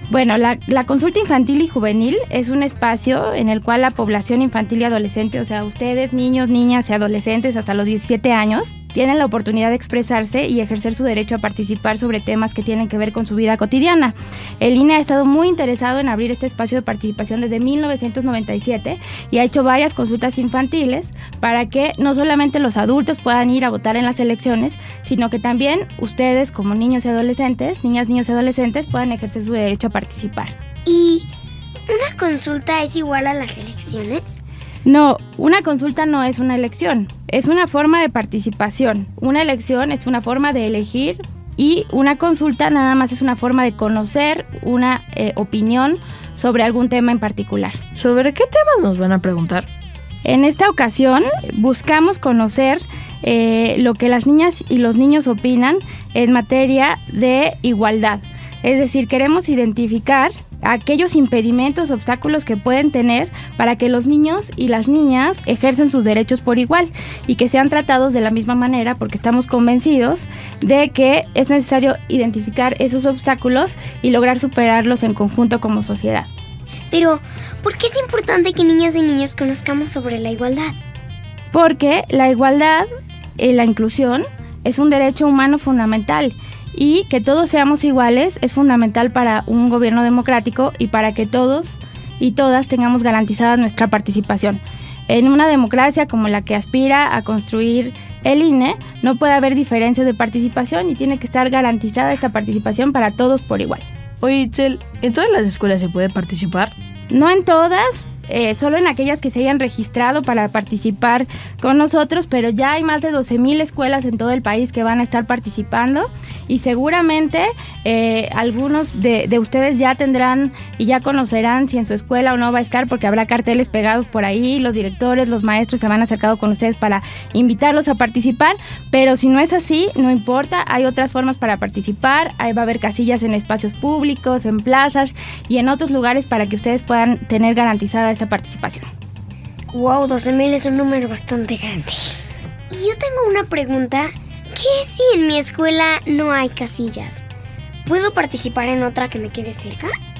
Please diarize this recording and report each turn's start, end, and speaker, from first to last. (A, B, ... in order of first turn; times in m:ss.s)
0:00.1-0:30.5 A
0:30.8-0:31.3 B
0:31.9-0:34.4 B
0:34.8-0:47.8 A
0:48.0-0:49.7 C
0:50.2-1:16.3 A
1:16.9-1:20.8 B
1:21.5-1:22.9 A
1:23.4-1:43.8 A
1:44.2-1:46.7 C
1:47.1-2:18.9 A
2:19.7-2:22.0 B
2:22.7-2:27.2 B
2:27.8-2:29.9 B